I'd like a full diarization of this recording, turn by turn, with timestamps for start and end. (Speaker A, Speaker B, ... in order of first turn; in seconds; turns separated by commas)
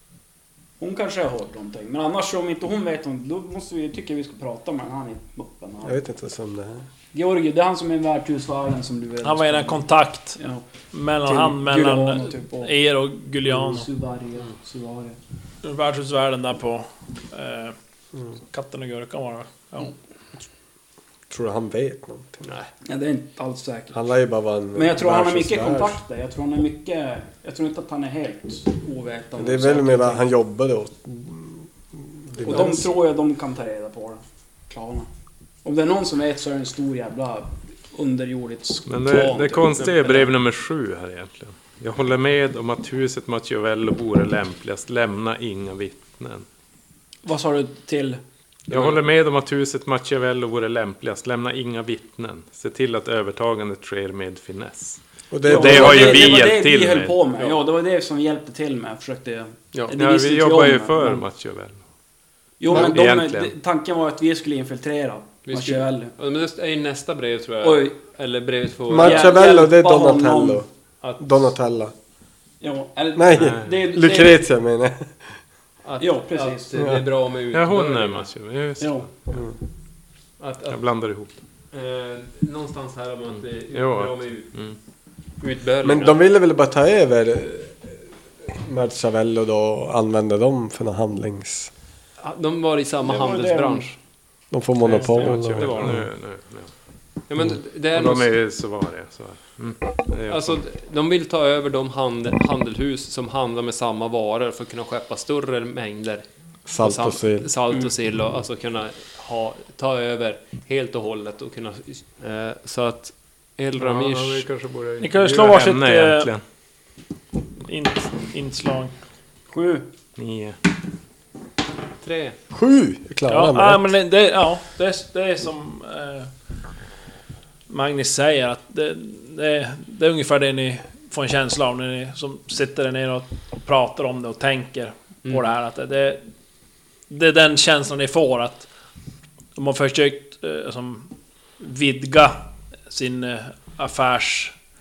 Speaker A: 0.8-6.0, Speaker B: 5.8-6.9, Speaker A: 7.1-10.6, Speaker C: 9.2-10.4, Speaker C: 10.9-13.9, Speaker A: 11.2-12.7, Speaker A: 13.5-15.2, Speaker C: 15.6-17.8, Speaker C: 18.5-19.9, Speaker B: 21.3-22.4, Speaker D: 22.4-22.7, Speaker A: 22.9-24.0, Speaker B: 23.9-26.0, Speaker A: 24.8-30.2, Speaker B: 29.4-32.9, Speaker A: 32.4-35.1, Speaker A: 35.6-40.3, Speaker E: 38.9-46.5, Speaker A: 47.2-48.2, Speaker E: 48.7-57.2, Speaker D: 48.7-49.0, Speaker B: 55.3-56.2, Speaker A: 55.5-61.2, Speaker E: 59.9-61.8, Speaker A: 62.6-66.1, Speaker B: 62.7-63.0, Speaker E: 62.7-63.5, Speaker D: 65.5-69.4, Speaker A: 67.6-68.0, Speaker B: 68.9-70.7, Speaker A: 69.0-70.6, Speaker D: 71.0-71.3, Speaker B: 71.2-71.9, Speaker A: 72.6-74.4, Speaker B: 73.1-75.3, Speaker E: 73.4-73.8, Speaker D: 75.8-78.3, Speaker A: 76.0-76.7, Speaker B: 76.8-77.0, Speaker E: 77.5-79.1, Speaker A: 78.8-79.1, Speaker D: 80.4-80.8, Speaker E: 80.7-81.4, Speaker D: 81.7-84.7, Speaker E: 83.7-84.8, Speaker D: 85.4-86.2, Speaker B: 85.8-91.7, Speaker D: 92.2-94.0, Speaker A: 93.0-93.9, Speaker B: 94.5-96.0, Speaker D: 94.8-96.1, Speaker E: 94.9-96.7, Speaker D: 97.3-98.3, Speaker E: 97.9-100.6, Speaker D: 100.3-106.2, Speaker B: 106.7-107.5, Speaker D: 106.8-114.5, Speaker E: 113.8-116.4, Speaker C: 115.0-116.3, Speaker C: 117.6-118.9, Speaker A: 119.5-119.9, Speaker E: 120.2-120.6, Speaker D: 122.0-122.4, Speaker B: 122.5-123.9, Speaker C: 123.3-126.3, Speaker C: 127.7-136.3, Speaker C: 137.1-138.7, Speaker C: 139.6-144.5